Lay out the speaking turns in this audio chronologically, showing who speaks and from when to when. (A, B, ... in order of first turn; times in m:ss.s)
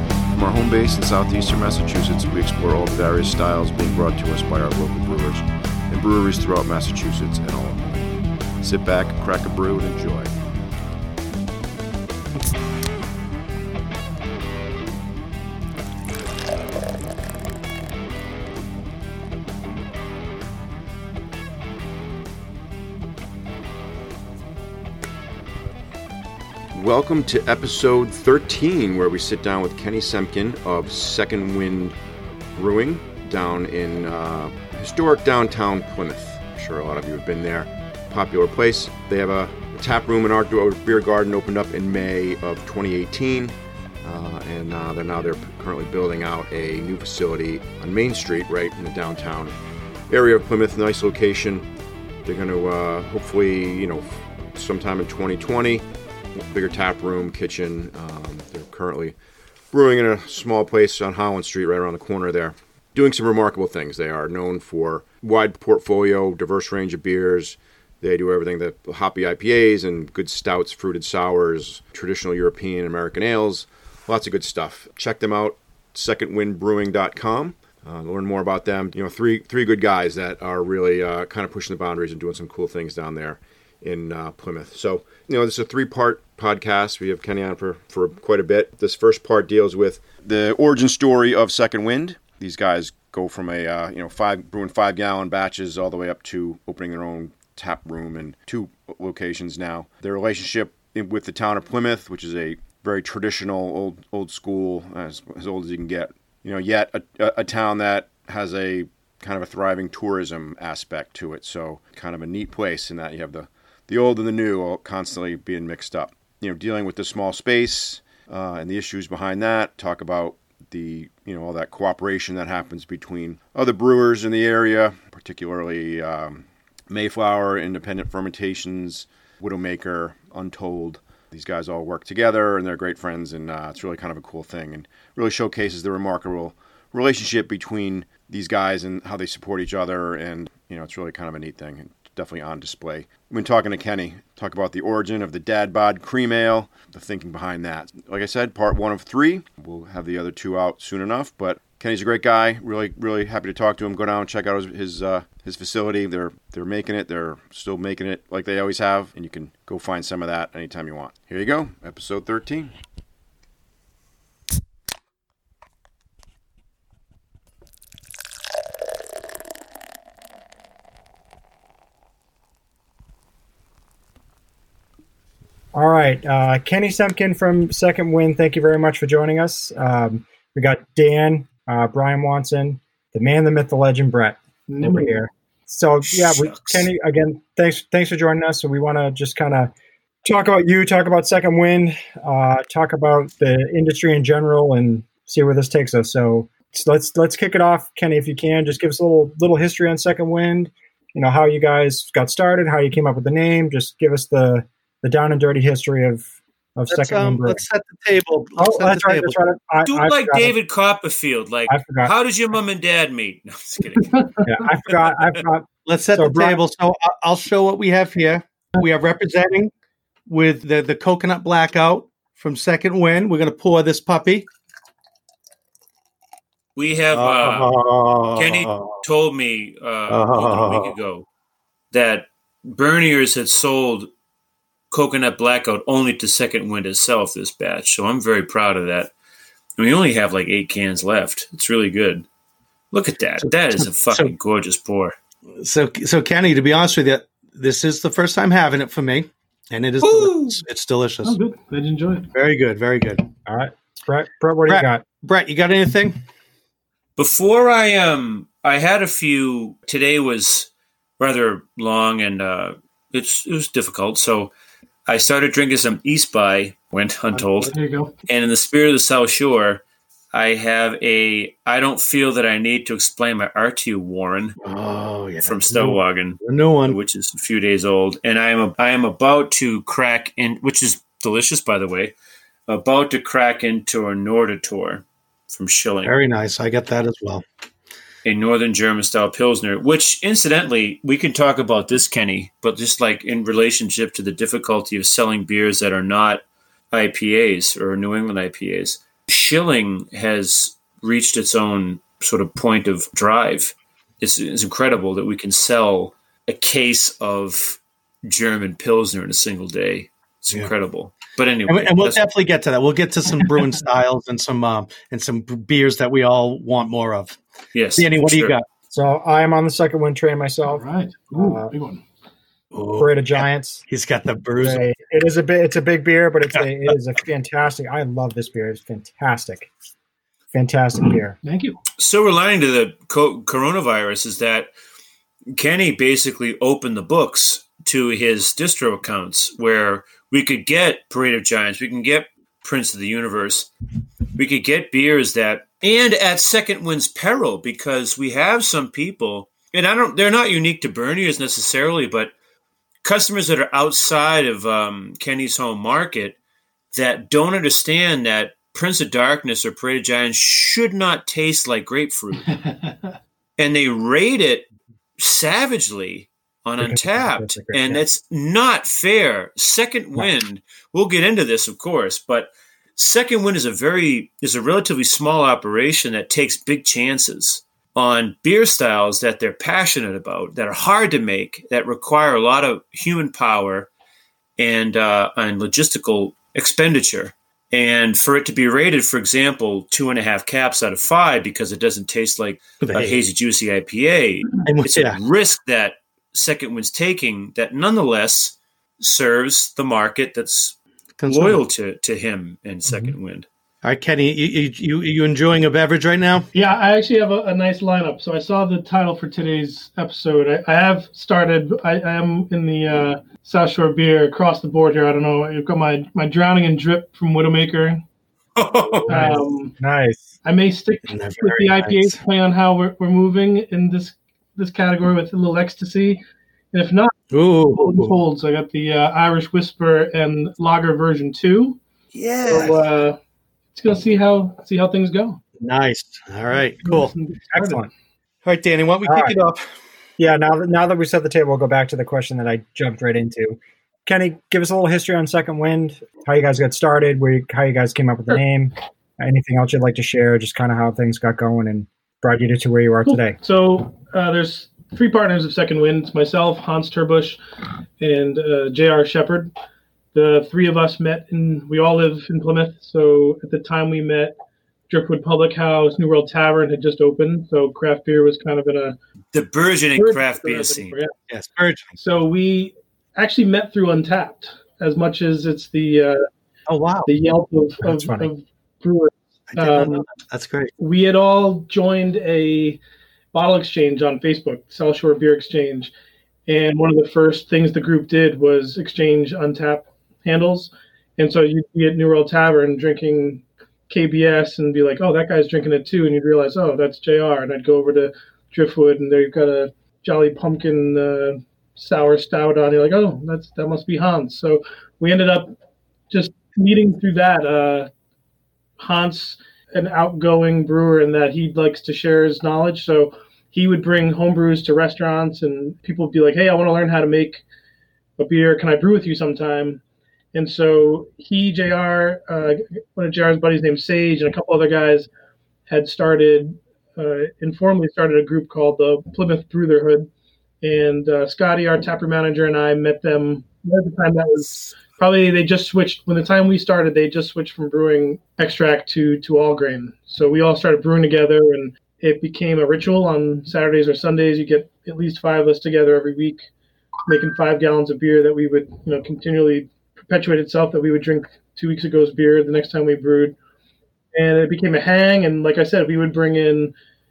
0:00.3-0:10.3 A
0:26.7-0:32.0 A
0:32.6-0:49.6 A
0:50.1-0:51.7 A
0:52.2-0:55.8 A
0:56.4-0:59.2 A
0:59.7-2:42.7 A
2:55.7-3:09.7 B
3:04.7-3:05.3 C
3:06.0-3:06.9 D
3:10.2-3:27.6 B
3:26.9-3:29.4 E
3:28.6-3:30.6 B
3:29.8-3:34.2 D
3:31.7-3:32.1 B
3:34.1-3:34.4 C
3:34.4-3:36.6 B
3:35.9-3:39.7 E
3:40.3-3:44.5 E
3:46.8-3:47.7 D
3:47.1-3:49.0 E
3:48.4-3:51.3 D
3:50.1-3:50.9 E
3:51.9-3:54.1 D
3:54.9-3:59.1 D
3:59.8-4:02.3 D
4:02.9-4:05.2 D
4:03.4-4:04.3 E
4:05.6-4:11.4 E
4:10.0-4:10.6 D
4:11.2-4:12.3 C
4:12.3-4:13.3 E
4:13.5-4:15.0 B
4:14.7-4:16.2 E
4:17.2-4:24.5 D
4:25.1-4:27.7 D
4:27.7-4:28.1 C
4:28.3-4:29.8 D
4:30.3-4:34.6 D
4:34.6-4:37.0 E
4:35.4-4:42.1 D
4:42.7-4:46.2 D
4:46.0-4:47.4 E
4:48.2-5:12.2 D
5:11.7-5:17.4 E
5:17.7-5:18.6 D
5:18.0-5:18.7 E
5:18.9-5:21.7 B
5:20.7-5:22.0 C
5:22.7-5:24.8 E
5:23.0-5:23.8 B
5:24.6-5:29.7 B
5:30.5-5:31.4 B
5:31.4-5:31.8 C
5:32.0-5:34.7 D
5:35.5-5:43.7 D
5:44.4-5:52.3 D
5:53.0-5:56.4 D
5:56.9-6:02.5 D
6:02.5-6:03.0 C
6:03.6-6:04.7 D
6:05.2-6:23.9 D
6:06.8-6:08.0 B
6:24.6-6:40.8 D
6:32.8-6:33.2 E
6:34.6-6:35.2 E
6:41.2-6:41.6 E
6:41.3-6:43.5 D
6:43.8-6:46.5 E
6:46.5-6:58.0 C
6:58.6-6:59.3 D
6:59.1-6:59.8 C
6:59.1-7:00.3 B
7:00.4-7:06.2 C
7:01.1-7:02.2 E
7:06.7-7:07.1 C
7:07.3-7:08.2 E
7:07.7-7:11.8 C
7:12.1-7:12.6 D
7:12.5-7:12.8 E
7:12.5-7:13.2 C
7:13.7-7:15.4 C
7:15.6-7:17.1 E
7:16.5-7:17.9 C
7:17.5-7:17.9 B
7:18.4-7:19.7 E
7:19.1-7:19.4 B
7:20.2-7:33.4 B
7:33.1-7:37.4 C
7:38.0-7:39.5 C
7:40.1-7:44.3 C
7:44.9-7:49.0 C
7:49.3-7:51.0 D
7:50.0-7:51.1 C
7:51.3-7:52.0 E
7:52.0-7:56.3 C
7:56.7-7:57.1 E
7:57.1-8:00.1 C
7:57.8-7:58.3 B
7:59.5-8:00.7 E
8:00.8-8:02.8 C
8:03.3-8:05.9 C
8:06.5-8:25.6 C
8:26.1-8:27.9 C
8:28.8-8:37.4 C
8:38.2-8:39.8 C
8:40.3-8:45.1 C
8:45.7-8:50.1 C
8:50.6-9:06.4 C
9:07.1-9:13.4 C
9:14.1-9:16.7 C